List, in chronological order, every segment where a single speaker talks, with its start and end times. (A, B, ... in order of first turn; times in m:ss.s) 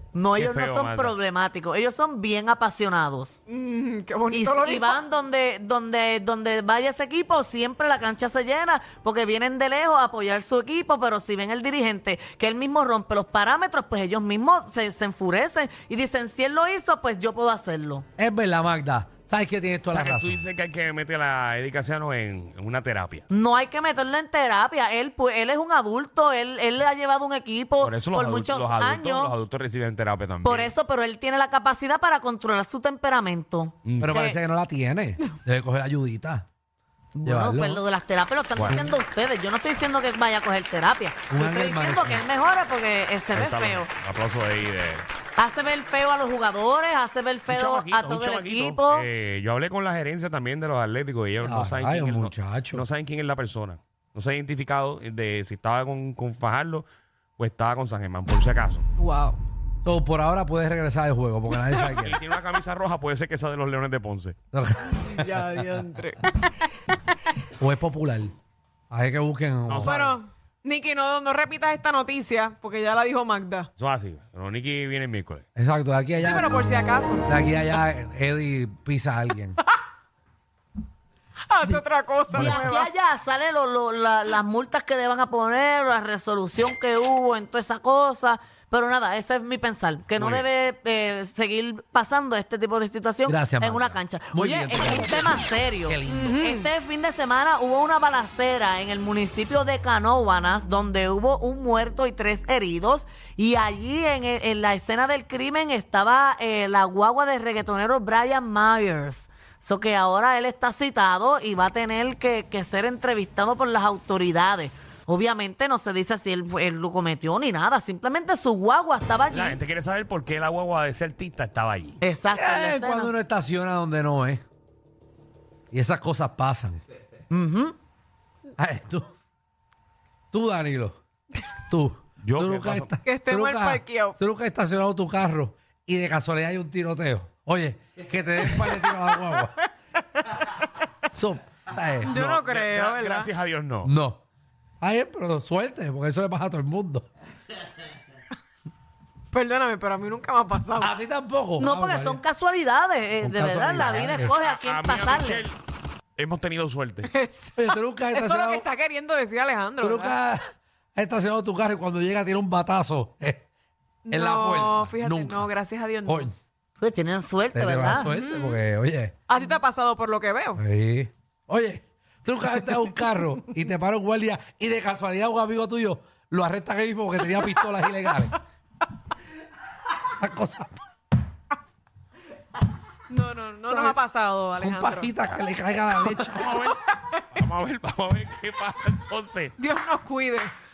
0:00.1-0:03.4 A
0:00.4-0:01.2 B
0:03.5-0:05.0 C
0:04.3-0:18.0 A
0:18.2-0:20.4 D
0:19.9-0:23.3 B
0:23.3-0:29.4 A
0:27.8-0:30.7 B
0:30.4-0:34.4 A
0:33.8-0:34.2 B
0:34.0-0:36.5 D
0:37.2-0:43.9 A
0:37.2-0:37.8 D
0:38.6-0:38.9 B
0:41.3-0:42.2 D
0:43.3-0:45.1 B
0:45.4-0:49.1 A
0:47.5-0:56.8 B
0:51.4-0:52.8 D
0:57.4-0:58.8 B
0:59.0-0:59.4 C
0:59.8-1:02.2 D
1:02.0-1:04.4 B
1:04.5-1:05.3 D
1:05.1-1:06.3 C
1:07.6-1:08.3 D
1:08.9-1:10.0 D
1:09.7-1:10.2 B
1:09.8-1:13.7 C
1:13.8-1:15.4 B
1:15.6-1:19.6 D
1:16.2-1:17.2 C
1:21.5-1:22.9 C
1:21.7-1:59.6 A
1:22.3-1:22.7 D
1:30.2-1:30.5 B
1:33.3-1:36.4 D
1:36.1-1:36.7 C
1:59.3-2:02.0 B
2:02.0-2:03.1 A
2:02.3-2:04.4 D
2:05.7-2:06.8 D
2:07.3-2:07.8 A
2:08.6-2:09.1 D
2:10.3-2:11.0 D
2:11.7-2:19.5 D
2:12.2-2:12.9 B
2:13.0-2:14.2 C
2:18.5-2:20.9 C
2:21.1-2:22.2 D
2:22.0-2:23.3 C
2:22.0-2:23.9 B
2:23.8-2:24.2 D
2:24.8-2:27.1 D
2:29.3-2:30.9 C
2:30.8-2:32.2 D
2:31.6-2:35.5 A
2:33.2-2:34.3 D
2:33.8-2:35.6 B
2:36.2-2:37.1 B
2:37.0-2:40.2 C
2:37.6-2:38.6 D
2:39.8-2:43.5 D
2:44.1-2:46.3 C
2:44.1-2:45.5 D
2:46.1-2:46.3 D
2:46.8-2:48.1 A
2:47.5-2:49.2 D
2:48.1-2:48.6 C
2:49.3-2:50.6 C
2:50.6-2:58.4 D
2:57.4-2:57.6 C
3:00.2-3:00.8 D
3:03.1-3:05.1 C
3:03.7-3:04.0 D
3:04.6-3:06.6 D
3:06.1-3:07.2 C
3:06.2-3:06.8 B
3:07.3-3:09.6 B
3:09.6-3:10.5 C